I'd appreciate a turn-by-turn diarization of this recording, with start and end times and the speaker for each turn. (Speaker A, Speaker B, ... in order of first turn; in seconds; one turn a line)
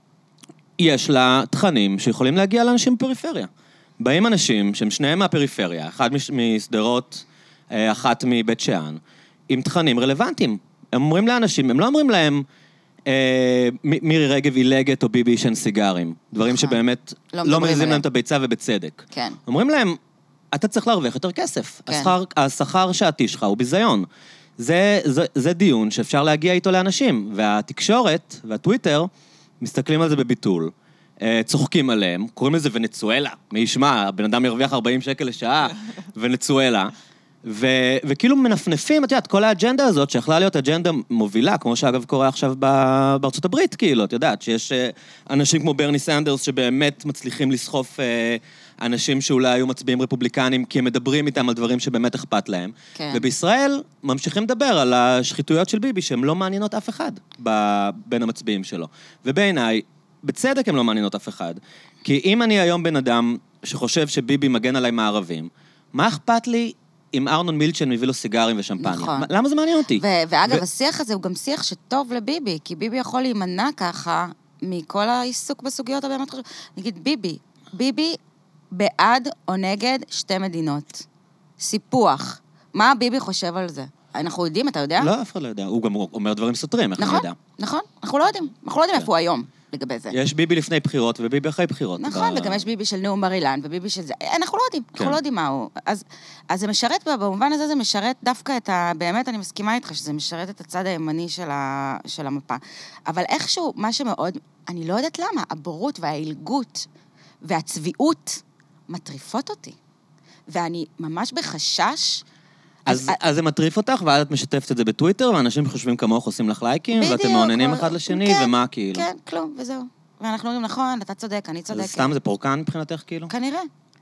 Speaker A: 0.8-12.4
Speaker A: 13.1-20.0
Speaker B: 17.3-18.0
Speaker B: 19.1-19.4
Speaker A: 20.5-24.1
Speaker B: 21.9-22.1
Speaker A: 24.6-29.1
Speaker A: 29.6-36.9
Speaker A: 37.4-70.6
Speaker B: 53.0-53.2
Speaker B: 68.8-69.3
Speaker B: 69.9-78.2
Speaker B: 78.7-81.0
Speaker B: 81.6-85.1
Speaker A: 85.0-87.4
Speaker B: 87.0-90.2
Speaker A: 90.1-92.7
Speaker B: 92.0-106.9
Speaker B: 107.4-109.8
Speaker B: 110.5-112.2
Speaker B: 112.8-113.2
Speaker A: 112.8-119.0
Speaker B: 116.9-122.2
Speaker A: 121.7-123.3
Speaker B: 123.3-123.7